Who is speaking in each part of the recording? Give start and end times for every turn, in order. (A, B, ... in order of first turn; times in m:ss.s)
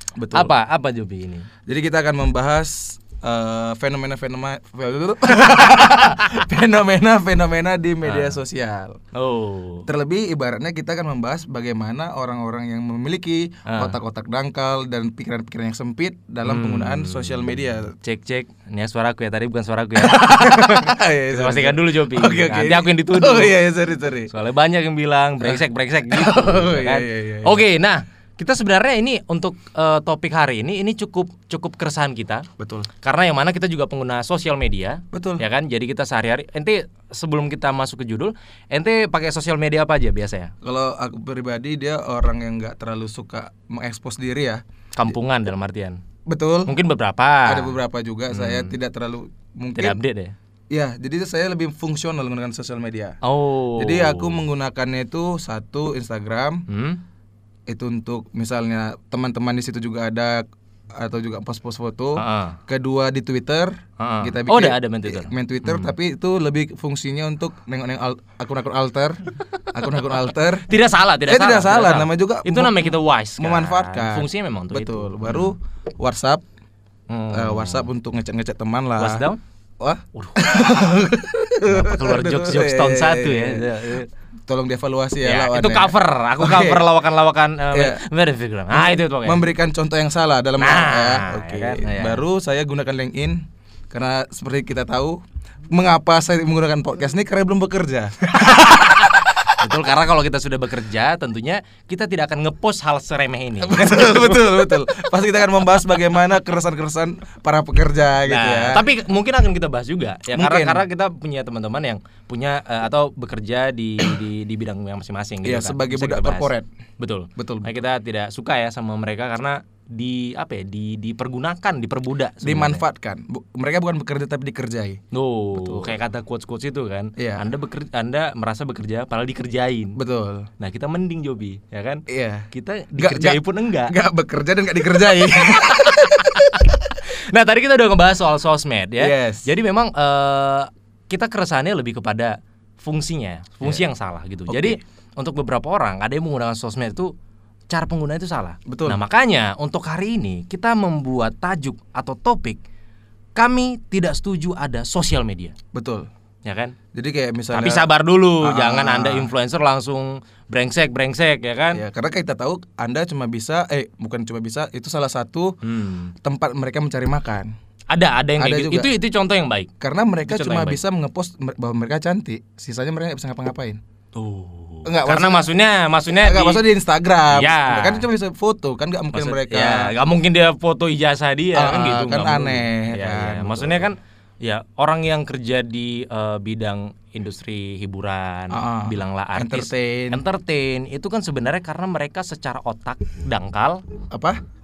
0:00.2-0:00.5 A
0:00.3-0:01.5 B
0:01.6-0:09.0 A
0:08.0-0:08.4 B
0:09.1-0:09.9 B
0:09.8-0:17.9 A
0:13.6-0:13.9 B
0:16.4-0:23.6 B
0:20.0-0:24.3 A
0:24.3-0:32.4 B
0:25.4-0:27.6 A
0:32.6-0:32.9 A
0:33.0-0:40.5 B
0:35.1-0:35.4 A
0:40.6-0:44.6 A
0:44.9-0:46.0 B
0:46.2-0:46.7 A
0:46.6-0:47.7 B
0:47.4-0:50.0 A
0:48.3-0:48.7 B
0:49.7-0:50.3 B
0:50.7-0:53.2 A
0:53.2-0:54.4 B
0:53.8-0:56.6 A
0:56.7-0:57.0 B
0:57.7-1:09.2 A
1:02.2-1:02.6 B
1:04.0-1:05.9 B
1:09.7-1:10.7 A
1:10.7-1:15.5 B
1:11.2-1:16.4 A
1:17.1-1:17.9 B
1:17.3-1:19.3 A
1:19.0-1:19.4 B
1:19.8-1:23.9 A
1:20.1-1:20.5 B
1:21.6-1:24.1 B
1:24.4-1:26.9 A
1:25.2-1:29.4 B
1:27.7-1:28.0 A
1:28.7-1:39.4 A
1:30.6-1:32.2 B
1:39.6-1:44.5 B
1:43.6-1:48.8 A
1:48.2-2:02.8 B
1:50.3-1:50.8 A
1:55.4-1:56.7 A
1:57.4-1:57.7 A
2:02.4-2:05.0 A
2:05.1-2:10.0 B
2:05.5-2:06.0 A
2:07.2-2:07.4 A
2:10.0-2:10.5 A
2:10.6-2:14.0 B
2:12.1-2:16.7 A
2:15.6-2:27.1 B
2:19.0-2:19.5 A
2:24.5-2:24.8 A
2:27.7-2:32.6 B
2:28.6-2:29.0 A
2:33.4-2:35.5 B
2:35.7-2:36.1 A
2:36.4-2:36.8 B
2:36.9-2:37.9 A
2:37.5-2:41.8 B
2:38.4-2:39.3 A
2:41.7-2:45.6 A
2:45.6-2:46.1 B
2:46.2-2:47.5 A
2:47.9-2:49.7 B
2:48.4-2:48.9 A
2:49.8-2:53.8 A
2:50.2-2:50.8 B
2:54.1-2:56.6 B
2:54.8-2:55.5 A
2:56.2-2:59.9 A
2:57.3-2:58.0 B
2:59.1-3:13.8 B
3:01.5-3:03.9 A
3:08.5-3:10.2 A
3:14.1-3:14.4 A